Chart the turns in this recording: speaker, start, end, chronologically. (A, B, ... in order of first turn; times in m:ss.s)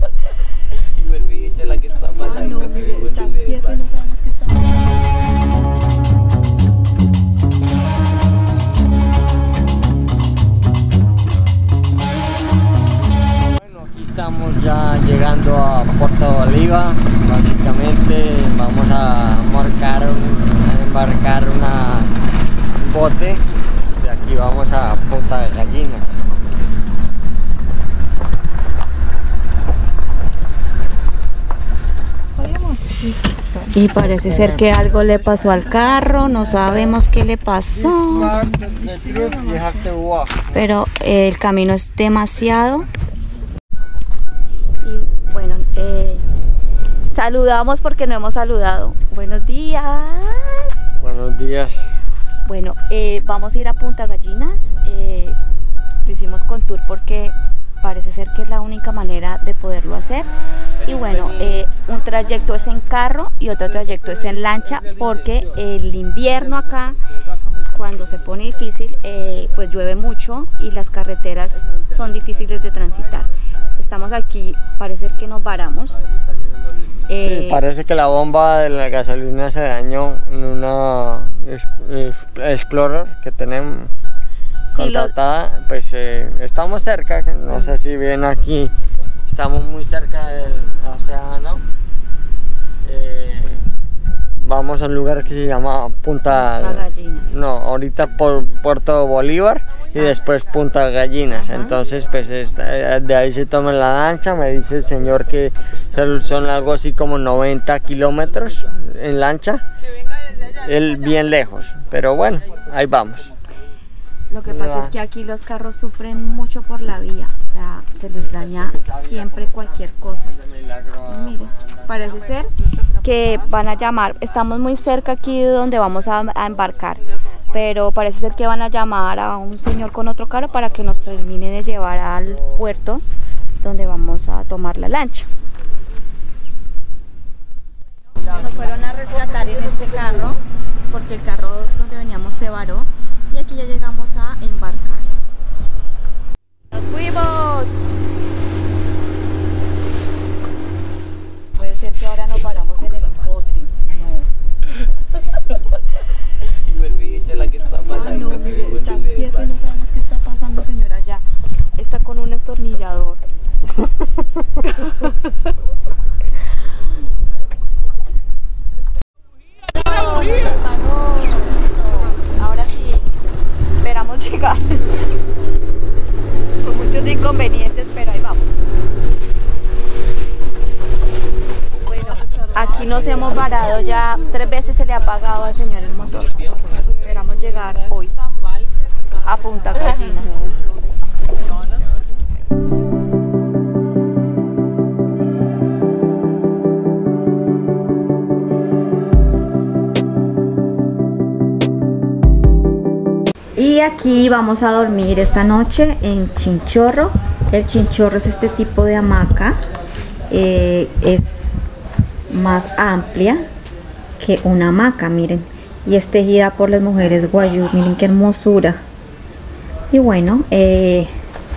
0:00.9-0:03.8 A
0:02.2-0:04.9 B
0:13.6-0:22.1 C
0:22.8-0:26.2 C
0:33.7-0:38.4 B
0:34.2-0:34.6 C
0:37.7-0:40.4 C
0:40.5-0:42.9 B
0:44.8-0:46.2 B
0:47.1-0:50.8 B
0:51.0-0:51.9 C
0:52.4-0:55.4 B
0:56.0-1:00.3 B
1:00.8-1:07.0 B
1:01.0-1:01.3 A
1:07.7-1:16.0 B
1:17.1-1:17.6 B
1:17.2-1:23.9 C
1:24.7-1:25.1 B
1:24.7-1:28.7 C
1:29.3-1:31.6 C
1:32.8-1:33.6 C
1:34.4-1:49.6 C
1:36.3-1:37.3 B
1:41.3-1:41.8 B
1:50.5-1:53.3 C
1:54.3-2:00.3 B
1:54.5-1:54.9 C
1:58.8-1:59.6 C
2:00.3-2:01.8 C
2:01.0-2:13.0 B
2:13.6-2:15.3 B
2:18.2-2:25.1 B
2:26.7-2:27.9 B
2:31.5-2:34.3 B
2:36.6-2:39.5 A
2:37.9-2:41.2 B
2:41.8-2:43.2 B
2:49.6-2:53.1 B
2:53.7-2:54.8 B
2:56.6-2:58.6 B
3:01.9-3:06.3 B
3:06.3-3:06.7 A
3:06.9-3:08.1 B
3:09.2-3:10.5 B
3:23.6-3:29.6 B
3:30.3-3:31.5 B
3:32.3-3:33.4 B
3:34.2-3:38.8 B
3:39.9-3:41.1 B